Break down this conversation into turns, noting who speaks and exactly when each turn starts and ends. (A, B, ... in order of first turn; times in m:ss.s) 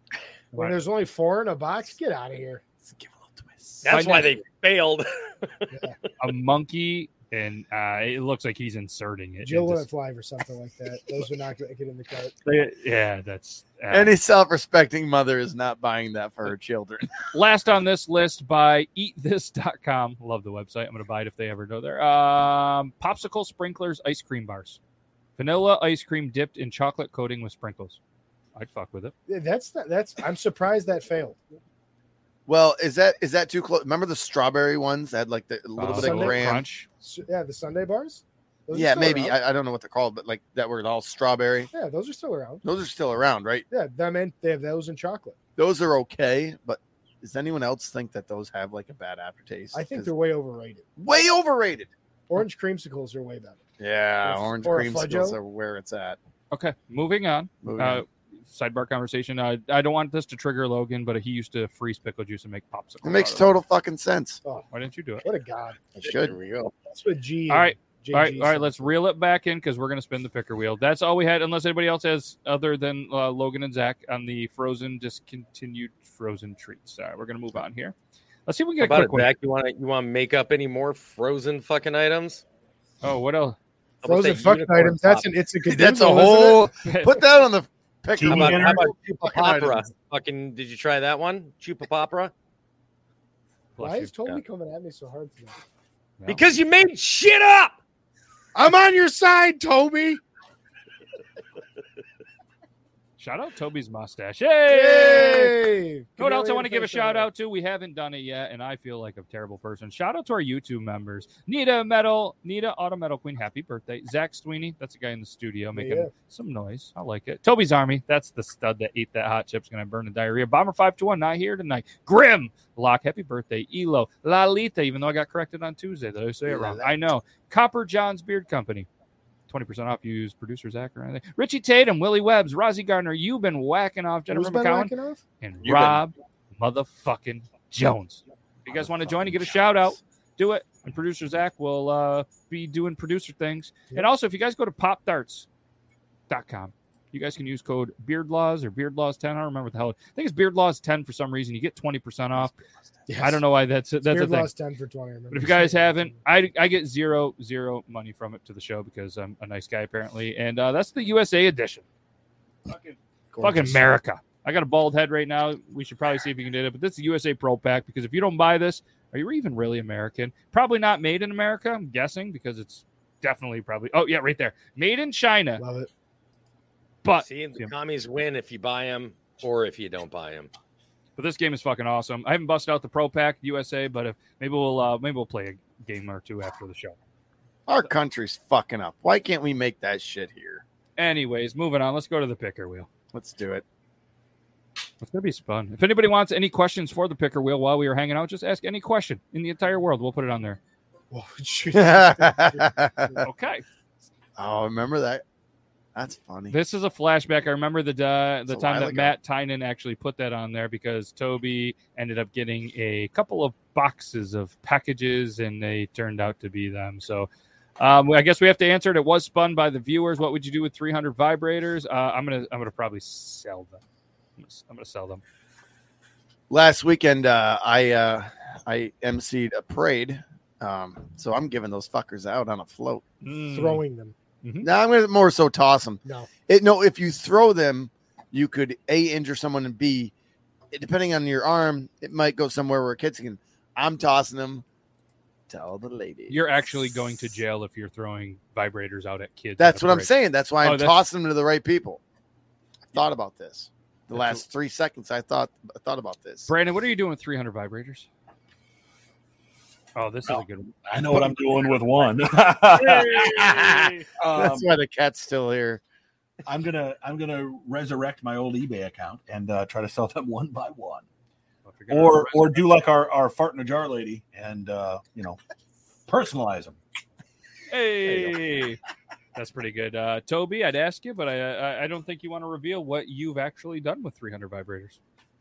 0:00.5-0:00.8 A
0:00.5-0:02.6 B
0:02.8-0:03.9 C
0:03.8-0:05.8 D
0:03.8-0:04.4 A
0:05.7-0:06.0 B
0:06.2-0:09.9 A
0:09.4-0:12.3 B
0:12.4-0:14.1 A
0:13.9-0:17.1 C
0:17.3-0:24.8 A
0:25.4-0:28.0 A
0:28.5-0:29.1 A
0:29.3-0:31.4 B
0:32.5-0:36.6 C
0:35.8-0:36.9 A
0:35.9-0:39.4 B
0:38.7-0:41.7 C
0:41.7-0:42.6 B
0:42.6-0:43.6 C
0:43.7-0:45.4 B
0:45.6-0:50.1 C
0:49.7-0:50.8 B
0:51.0-0:51.9 C
0:52.3-0:53.6 B
0:53.8-0:56.2 C
0:54.2-0:55.4 B
0:56.5-1:03.5 A
0:57.6-0:58.0 C
1:03.0-1:04.4 C
1:04.7-1:05.2 A
1:05.2-1:05.9 B
1:06.0-1:06.6 C
1:06.0-1:06.7 D
1:06.9-1:08.9 B
1:07.5-1:17.9 A
1:18.4-1:19.3 A
1:18.8-1:22.4 D
1:23.0-1:23.6 A
1:24.0-1:25.3 D
1:24.0-1:26.7 B
1:25.6-1:29.8 C
1:26.8-1:27.2 A
1:28.2-1:28.8 E
1:28.3-1:32.3 D
1:33.8-1:34.1 A
1:33.8-1:35.6 B
1:36.2-1:36.5 A
1:36.3-1:37.8 D
1:38.5-1:40.2 B
1:43.2-1:45.6 A
1:44.7-1:47.3 B
1:46.2-2:08.9 A
1:55.7-1:56.1 B
2:06.5-2:06.9 C
2:09.5-2:25.5 A
2:14.3-2:15.2 B
2:15.6-2:16.0 C
2:18.7-2:19.6 C
2:26.3-2:32.5 A
2:33.1-2:33.4 B
2:33.2-2:34.5 A
2:34.0-2:36.2 B
2:35.3-2:41.8 A
2:42.7-2:43.0 E
2:43.3-2:43.9 B
2:43.4-2:55.6 A
2:55.6-2:55.9 B
2:57.0-2:57.7 A
2:57.2-3:00.5 D
3:01.2-3:07.0 A
3:07.7-3:10.6 C
3:11.0-3:12.9 A
3:13.1-3:13.6 C
3:15.0-3:20.6 A
3:21.1-3:23.2 B
3:21.7-3:23.2 C
3:23.2-3:23.6 A
3:24.4-3:25.2 C
3:25.9-3:26.6 C
3:26.5-3:37.3 A
3:28.5-3:29.1 C
3:37.8-3:43.8 A
3:44.4-3:45.2 A
3:46.5-3:53.0 C
3:53.2-3:53.8 A
3:53.5-3:54.1 B
3:54.4-3:54.7 A
3:54.6-4:00.1 C
4:00.7-4:04.6 C
4:05.5-4:06.4 C
4:06.3-4:10.1 A
4:09.6-4:12.0 C
4:10.6-4:11.0 A
4:12.9-4:16.5 C
4:14.1-4:14.4 A
4:16.5-4:18.1 A
4:19.9-4:21.3 A
4:20.9-4:23.4 E
4:22.7-4:24.1 A
4:23.2-4:25.8 C
4:24.2-4:24.7 E
4:26.4-4:31.0 E
4:31.7-4:32.6 A
4:31.9-4:35.4 E
4:36.1-4:36.8 E
4:37.7-4:38.8 A
4:38.0-4:38.4 D
4:39.3-4:45.0 A